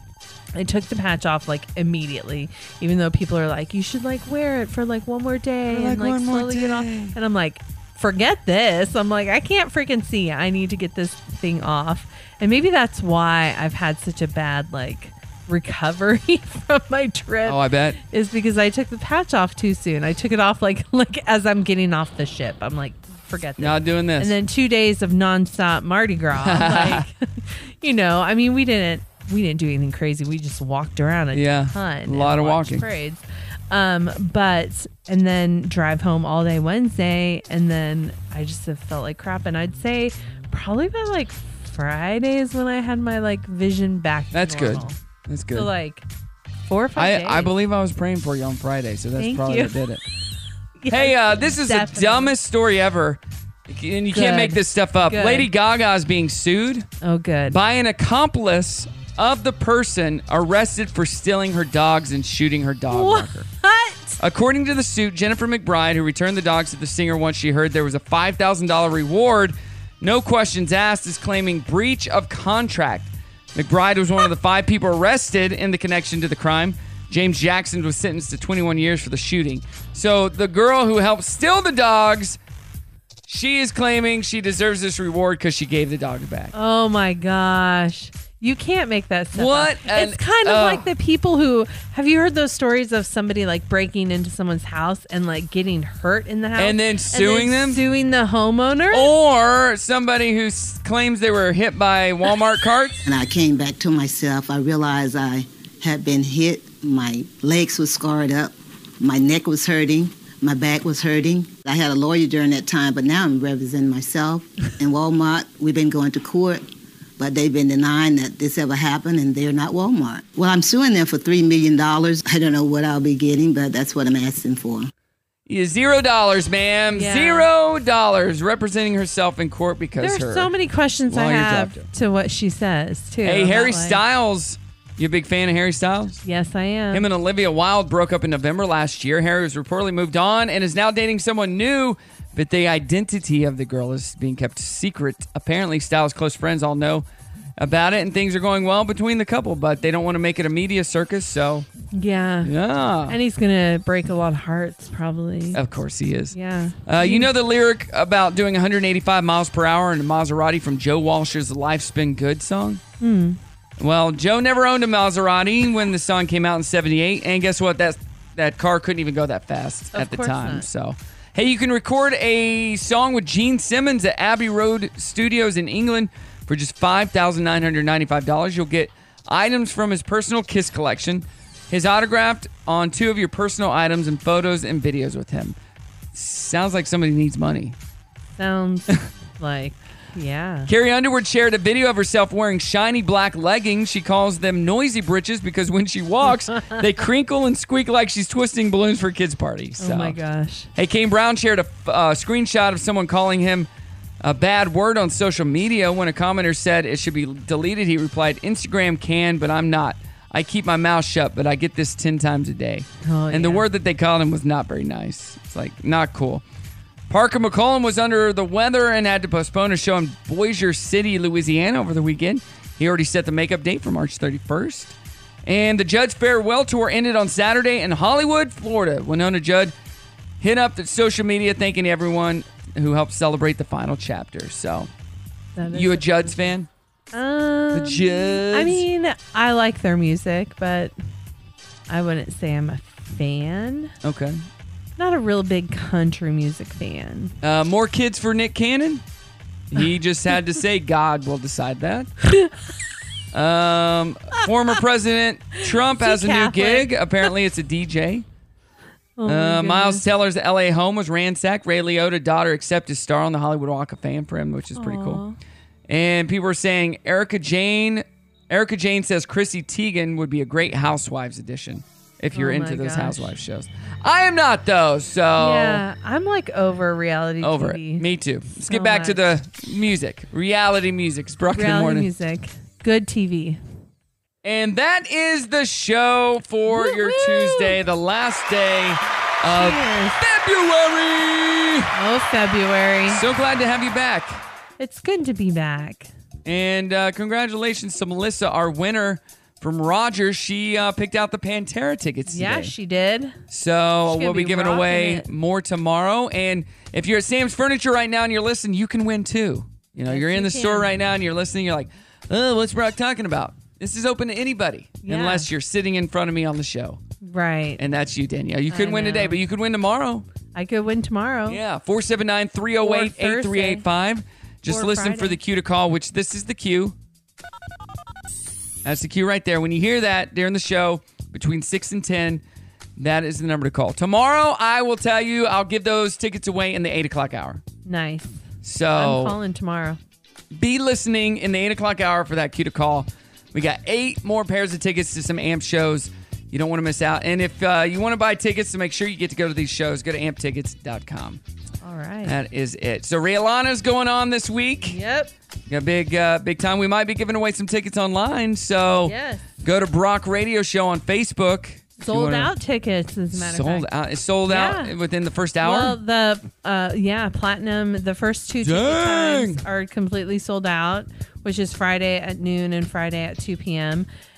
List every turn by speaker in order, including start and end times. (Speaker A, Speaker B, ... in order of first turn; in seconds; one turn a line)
Speaker A: 0.5-44.9
Speaker B: 5.7-7.1
Speaker B: 17.4-18.0
Speaker B: 23.6-24.3
Speaker B: 26.3-27.1
Speaker B: 31.3-32.8
Speaker B: 44.3-45.7
Speaker A: 45.5-46.0
Speaker A: 46.6-47.5
Speaker B: 47.0-50.0
Speaker A: 49.2-49.8
Speaker A: 50.8-52.3
Speaker B: 50.9-56.9
Speaker A: 54.1-55.5
Speaker A: 57.0-57.6
Speaker B: 57.5-63.5
Speaker A: 62.9-64.2
Speaker B: 64.2-82.4
Speaker B: 83.3-86.5
Speaker A: 86.5-99.1
Speaker B: 89.3-90.9
Speaker B: 96.6-97.8
Speaker B: 98.9-103.0
Speaker C: 103.0-116.6
Speaker C: 117.2-124.9
Speaker B: 125.5-130.5
Speaker A: 126.9-127.5
Speaker A: 130.0-134.0
Speaker B: 131.1-131.8
Speaker B: 133.2-136.2
Speaker A: 136.2-137.1
Speaker B: 136.9-147.1
Speaker B: 147.6-151.7
Speaker A: 151.9-152.5
Speaker B: 152.4-153.2
Speaker A: 153.1-155.6
Speaker B: 155.5-162.8
Speaker A: 156.3-157.3
Speaker A: 163.0-163.4
Speaker B: 163.8-185.6
Speaker A: 169.9-170.7
Speaker B: 186.1-187.8
Speaker A: 188.4-190.7
Speaker B: 190.7-200.2
Speaker A: 199.8-200.7
Speaker B: 200.7-203.7
Speaker B: 204.2-216.4
Speaker A: 213.0-213.7
Speaker B: 217.1-224.9
Speaker B: 225.4-229.7
Speaker B: 230.4-234.9
Speaker A: 235.6-236.5
Speaker B: 235.7-236.7
Speaker A: 237.1-240.9
Speaker B: 237.7-238.8
Speaker A: 241.9-243.9
Speaker B: 244.0-244.4
Speaker A: 245.0-247.3
Speaker B: 247.4-249.0
Speaker B: 249.7-252.1
Speaker B: 253.3-258.2
Speaker A: 255.9-256.9
Speaker A: 259.2-260.0
Speaker B: 259.2-265.2
Speaker A: 264.7-265.4
Speaker B: 265.9-275.8
Speaker A: 272.3-273.3
Speaker A: 275.4-278.0
Speaker B: 277.4-282.1
Speaker A: 278.7-279.2
Speaker A: 281.5-283.6
Speaker B: 284.4-291.9
Speaker A: 286.7-287.8
Speaker A: 289.5-290.2
Speaker A: 291.9-293.2
Speaker B: 293.1-294.4
Speaker A: 294.8-296.1
Speaker B: 296.4-302.7
Speaker A: 302.3-303.4
Speaker B: 303.5-317.0
Speaker A: 304.1-305.2
Speaker A: 310.1-310.9
Speaker A: 315.0-315.5
Speaker A: 317.2-317.8
Speaker B: 317.8-320.2
Speaker A: 318.7-319.4
Speaker A: 320.5-321.6
Speaker B: 321.5-326.9
Speaker A: 322.8-323.8
Speaker A: 324.6-325.4
Speaker B: 328.8-332.4
Speaker B: 333.0-337.6
Speaker A: 337.8-338.4
Speaker B: 338.6-339.4
Speaker A: 338.9-340.0
Speaker B: 340.5-351.4
Speaker A: 351.8-352.4
Speaker B: 352.2-355.0
Speaker A: 354.9-355.3
Speaker B: 355.7-362.5
Speaker A: 359.0-359.4
Speaker A: 362.0-363.9
Speaker B: 363.3-366.0
Speaker A: 364.5-364.9
Speaker A: 365.6-374.1
Speaker B: 368.6-369.6